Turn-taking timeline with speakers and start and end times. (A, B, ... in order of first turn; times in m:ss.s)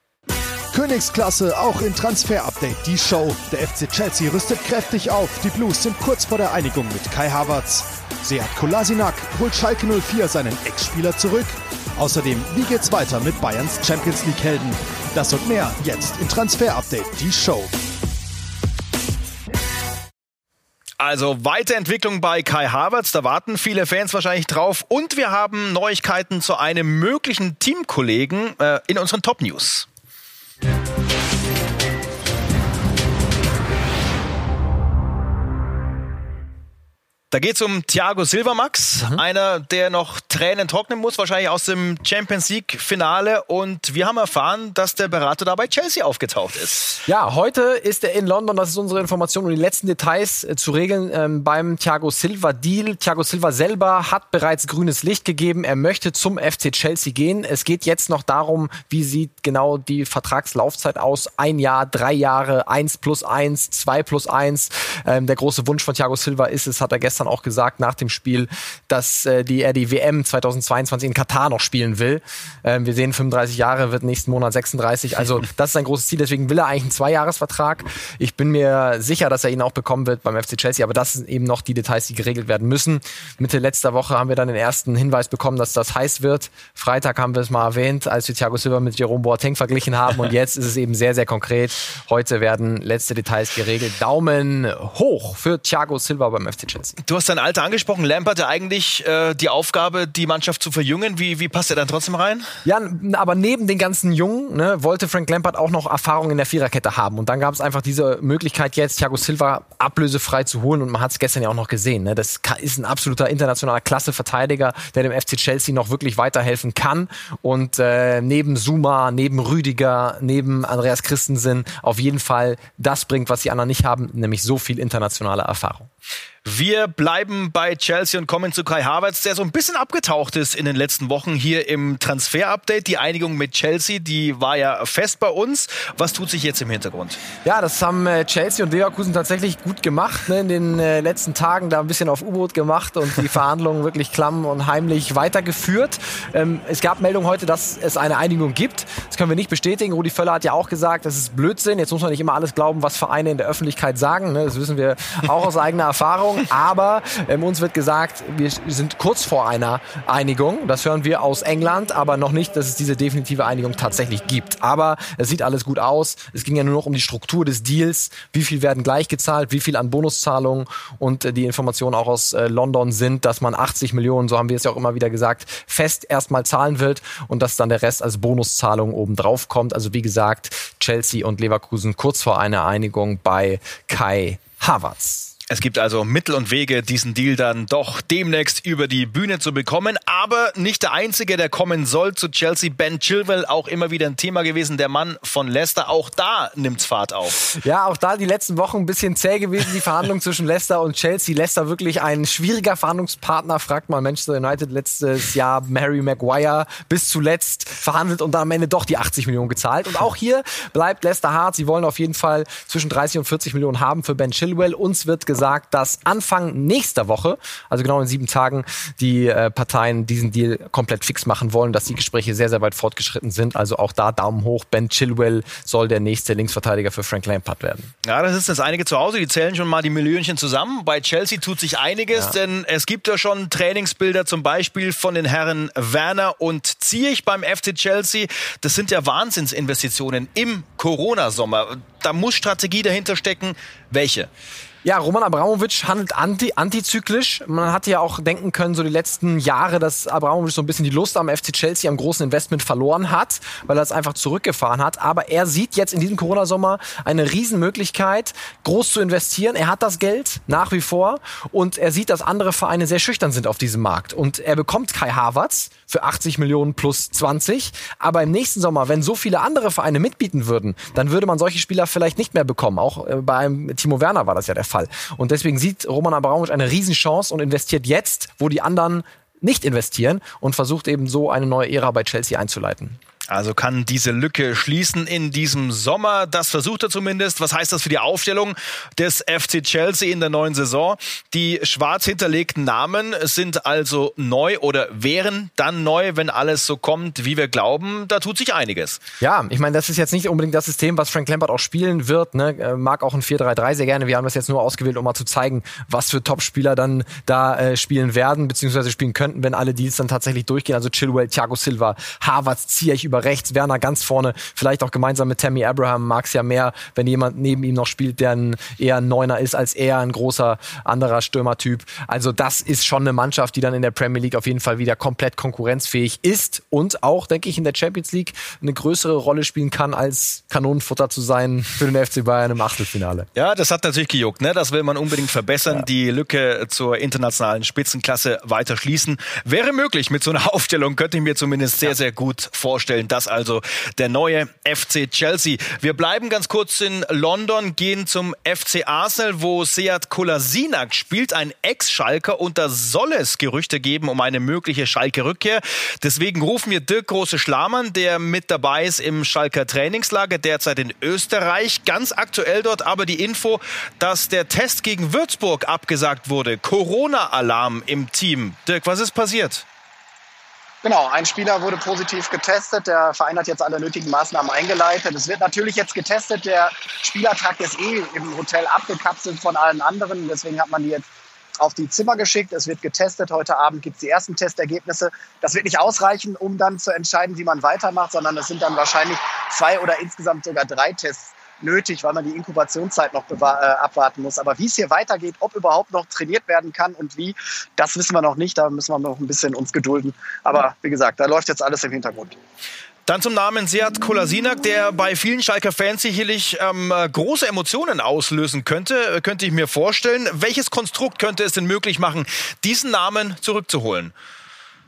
0:00.7-0:17.7 A
0:21.0-0:29.9 B
0:37.3-0:46.9 B
0:47.0-1:37.0 C
1:37.0-1:42.5 B
1:42.6-2:05.9 C
2:06.4-2:17.2 B
2:17.4-3:05.3 C
3:05.5-3:17.4 B
3:17.5-3:47.9 C
3:48.0-4:04.3 B
4:04.8-4:43.0 C
4:43.3-4:59.0 B
4:59.2-5:33.3 C
5:33.3-6:09.6 B
6:10.8-6:21.0 D
6:21.6-6:42.4 D
6:43.0-6:54.1 B